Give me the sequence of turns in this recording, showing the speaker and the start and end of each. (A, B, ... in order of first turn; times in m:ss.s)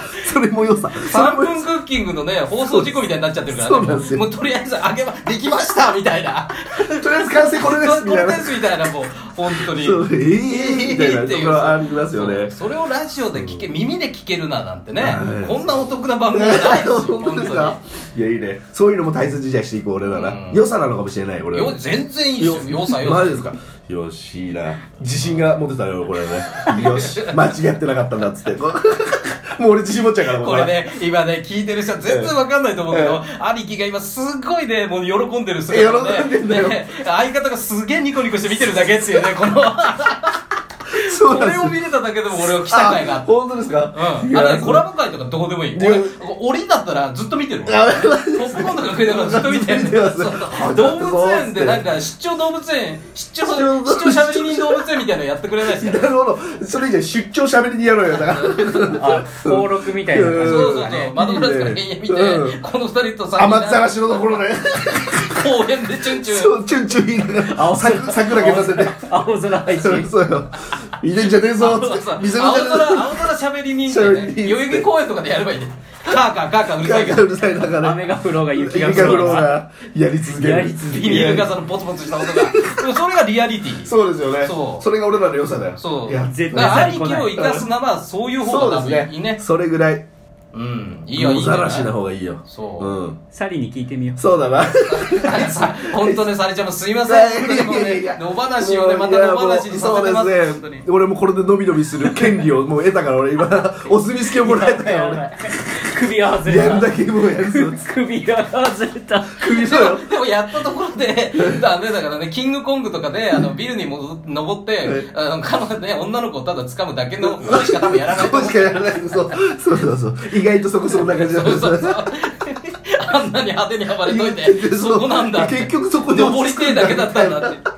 0:00.2-0:01.6 A
0:01.0-0:17.8 B
0:02.7-0:03.0 A
0:03.5-0:04.3 A
0:07.0-0:08.6 A
0:09.5-0:12.5 A
0:15.0-0:15.7 A
0:16.3-0:21.8 A
0:20.1-0:20.6 B
0:21.5-0:23.5 B
0:22.4-0:30.7 A
0:25.2-0:25.5 B
0:26.6-0:27.4 B
0:30.3-0:43.3 B
0:32.1-0:32.3 A
0:32.9-0:33.2 A
0:35.7-0:36.8 A
0:41.0-0:41.8 A
0:42.4-0:44.9 A
0:43.9-0:56.1 B
0:45.7-0:46.2 A
0:47.7-0:51.9 A
0:53.4-0:54.9 A
0:55.6-1:02.6 A
0:58.2-0:58.9 B
0:58.9-1:01.2 C
1:00.4-1:04.3 B
1:03.4-1:05.5 A
1:05.3-1:06.6 B
1:06.0-1:09.1 A
1:07.4-1:10.1 C
1:09.7-1:13.3 A
1:11.6-1:17.5 B
1:13.9-1:14.9 A
1:16.8-1:21.5 A
1:17.8-1:19.6 C
1:18.9-1:19.5 B
1:20.3-1:21.4 C
1:20.9-1:24.9 B
1:22.1-1:22.8 A
1:23.8-1:27.7 A
1:25.8-1:29.4 B
1:26.2-1:27.4 C
1:28.4-1:30.1 A
1:30.5-1:31.9 B
1:31.2-1:33.2 A
1:32.5-1:33.0 B
1:33.3-1:34.3 C
1:34.2-1:36.3 A
1:34.9-1:40.9 B
1:37.0-1:45.2 A
1:42.1-1:42.4 C
1:44.3-1:49.5 C
1:46.4-1:47.9 A
1:49.3-1:50.1 A
1:49.4-1:59.6 B
1:51.4-1:51.6 A
1:54.8-1:55.1 A
1:57.2-2:02.0 A
2:00.9-2:07.6 B
2:04.0-2:07.6 A